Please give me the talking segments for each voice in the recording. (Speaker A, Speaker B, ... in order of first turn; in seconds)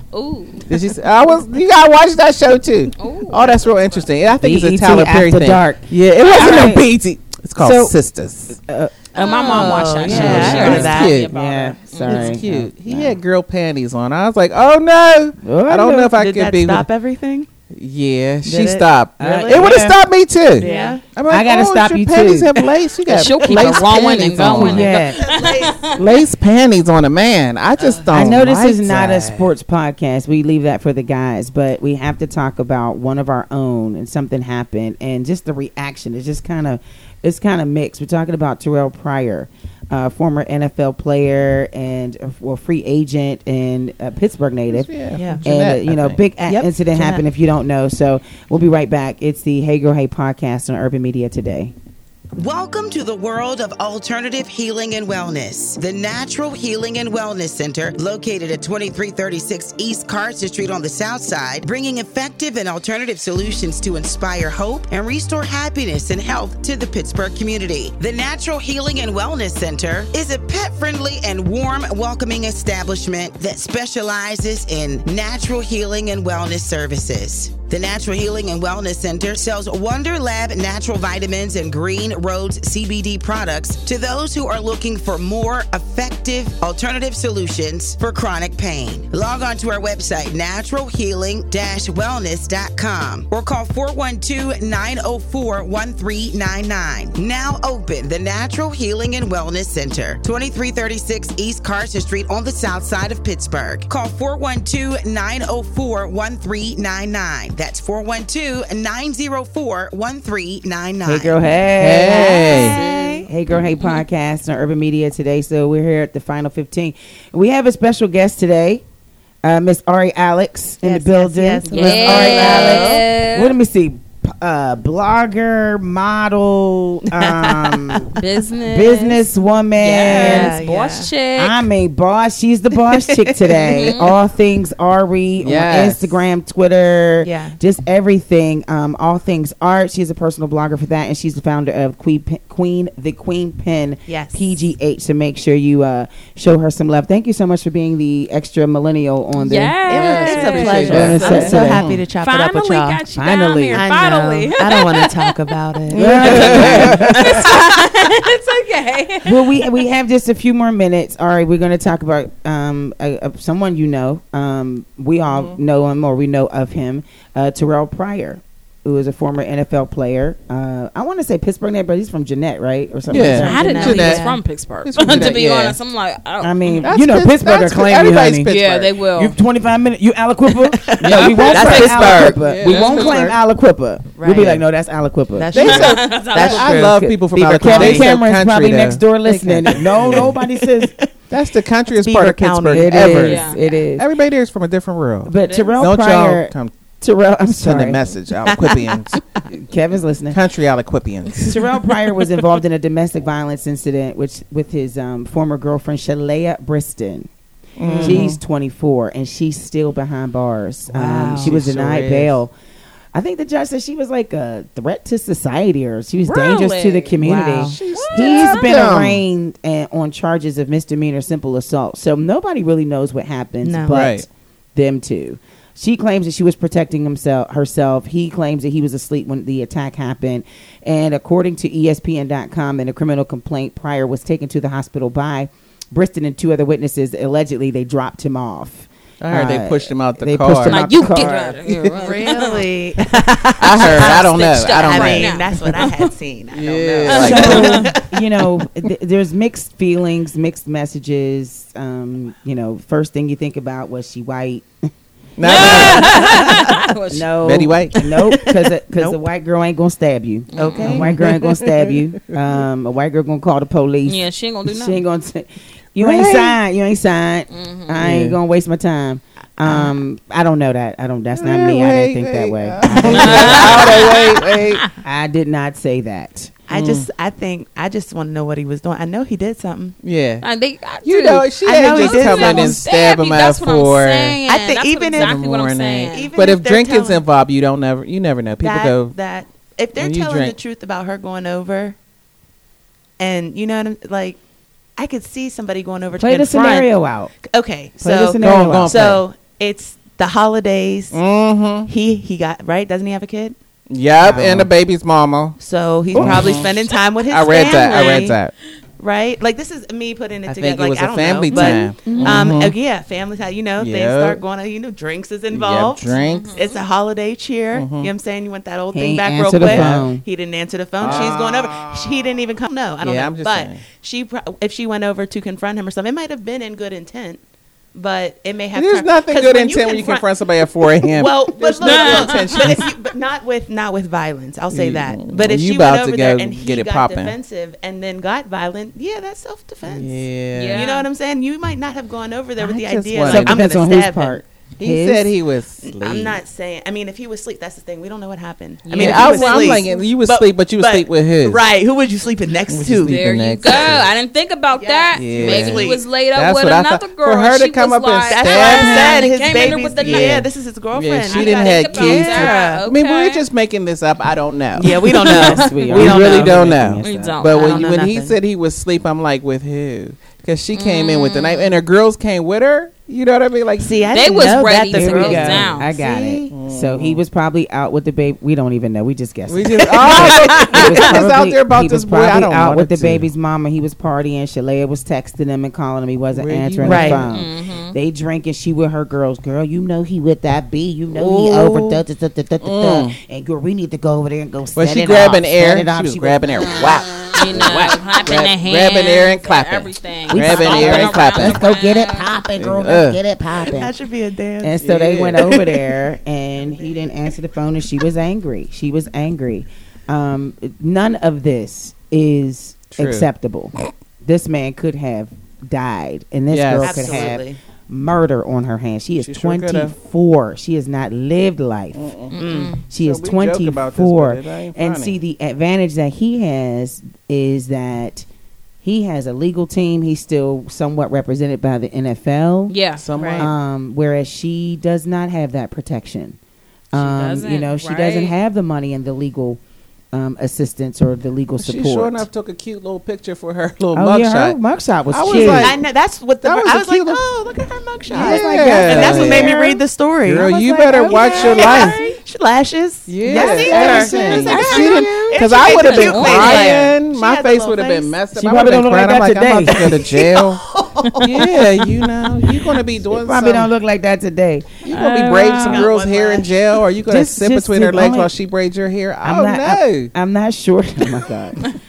Speaker A: 0.1-0.7, 3.0-4.1, 9.1-12.4, 20.6-21.0, 23.1-25.9, 113.8-114.0, 121.7-123.5, 128.2-129.2, 129.8-131.7, 133.7-134.1, 149.3-151.5, 152.2-155.4, 156.0-159.7, 173.2-176.9, 178.5-179.4, 181.5-183.2, 185.6-186.7, 193.1-193.8, 195.4-195.8, 216.2-217.2, 217.9-218.7, 240.6-242.6, 243.8-245.9, 247.1-247.9, 255.4-257.3, 260.5-261.0, 264.1-265.0, 267.5-268.0, 273.0-274.9, 280.4-286.3, 316.1-316.8, 331.8-332.7, 340.5-341.1, 348.8-349.9, 353.0-360.4, 361.3-363.4, 365.2-365.7, 367.0-367.9, 370.7-371.7, 374.1-375.9, 387.2-387.9, 397.3-402.3, 422.3-422.8, 432.7-433.1, 436.9-438.3, 451.1-452.1, 454.5-456.9, 464.9-465.8
Speaker B: 0.7-8.6, 10.0-11.3, 12.0-16.9, 17.8-24.9, 25.8-29.5, 44.7-46.2, 111.8-113.3, 135.4-136.2, 149.9-151.9, 155.9-157.4, 165.3-165.6, 173.1-174.3, 174.8-175.8, 176.8-179.0, 181.0-183.4, 185.5-190.3, 191.3-196.7, 197.5-199.2, 200.3-201.6, 207.8-208.4, 211.4-212.4, 217.6-219.2, 223.9-224.2, 239.2-240.8, 243.6-245.4, 246.5-247.8, 255.4-256.8, 257.4-258.3, 260.8-262.0, 266.0-266.6, 268.0-268.4, 271.3-274.8, 276.7-277.1, 280.0-280.4, 281.0-284.4, 285.1-289.1, 289.9-290.5, 298.4-299.2, 301.1-301.9, 303.9-305.6, 306.1-308.5, 310.4-312.8, 313.8-314.4, 315.5-316.5, 317.7-318.1, 319.6-320.1, 321.0-322.4, 323.0-323.8, 328.7-332.9, 334.7-337.3, 339.8-340.9, 342.6-343.6, 344.8-346.4, 348.9-351.6, 352.7-354.1, 355.1-359.2, 360.0-374.2, 375.2-377.2, 379.5-383.3, 386.3-387.2, 391.1-392.0, 392.6-393.1, 394.8-401.6, 402.6-403.2, 404.8-405.8, 412.9-413.3, 416.5-417.3, 419.2-419.9, 421.9-425.1, 433.0-433.5, 441.6-444.6, 445.1-445.8, 446.4-447.2, 448.1-452.0, 453.1-460.6, 461.2-463.7, 464.8-470.1
Speaker C: 4.4-6.8, 7.6-8.0, 8.5-8.9, 9.6-13.2, 15.4-16.1, 19.2-20.0, 21.3-22.5, 23.5-25.3, 28.1-44.9, 45.4-51.7, 111.0-118.8, 119.4-130.6, 131.3-152.0, 153.1-153.9, 155.9-157.6, 159.2-174.0, 175.1-175.4, 176.4-178.5, 179.1-185.6, 186.5-190.9, 192.7-194.1, 195.2-198.0, 199.5-200.4, 201.4-207.3, 207.9-212.5, 213.1-241.9, 243.1-243.5, 247.1-254.7, 255.5-256.3, 257.1-274.0, 275.0-276.6, 296.2-297.3, 298.0-299.2, 304.2-304.7, 306.1-306.5, 311.5-312.5, 318.9-320.2, 321.0-321.3, 343.3-345.4, 358.7-359.1, 365.3-367.4, 374.9-397.3, 400.3-403.9, 404.6-422.1, 422.9-428.2, 428.8-432.7, 433.4-436.4, 436.9-439.6, 440.1-442.2, 443.9-445.8, 448.1-449.8, 451.0-452.1, 453.2-455.1, 458.3-461.7, 463.1-464.8, 467.1-468.3, 469.2-471.8
Speaker D: 9.1-11.1, 16.1-17.5, 18.4-19.7, 20.6-21.1, 24.7-26.1, 27.8-28.3, 45.2-45.5, 46.5-47.2, 112.0-113.3, 120.8-123.0, 127.1-128.0, 130.0-131.1, 132.7-133.9, 137.2-137.6, 144.1-144.6, 149.8-153.0, 153.7-157.4, 173.3-174.4, 180.8-182.4, 184.1-184.6, 185.3-188.1, 189.4-191.1, 191.9-193.2, 198.4-199.4, 201.5-202.4, 207.8-208.3, 210.9-211.5, 217.2-217.8, 223.6-223.9, 241.9-244.3, 244.8-248.4, 258.9-259.2, 260.5-261.1, 269.6-270.0, 272.9-273.8, 276.7-280.0, 281.6-282.8, 284.4-285.4, 286.1-287.2, 288.6-292.0, 293.2-294.4, 295.0-301.2, 301.9-303.6, 305.6-308.4, 309.0-327.4, 327.9-340.2, 340.7-344.4, 345.8-353.2, 354.8-356.0, 358.3-362.8, 364.8-366.7, 367.4-368.4, 373.8-375.7, 379.8-381.2, 386.8-387.2, 403.6-404.9, 416.8-417.6, 422.4-422.8, 433.1-433.5, 445.3-458.2, 465.6-466.8
Speaker E: 52.3-111.4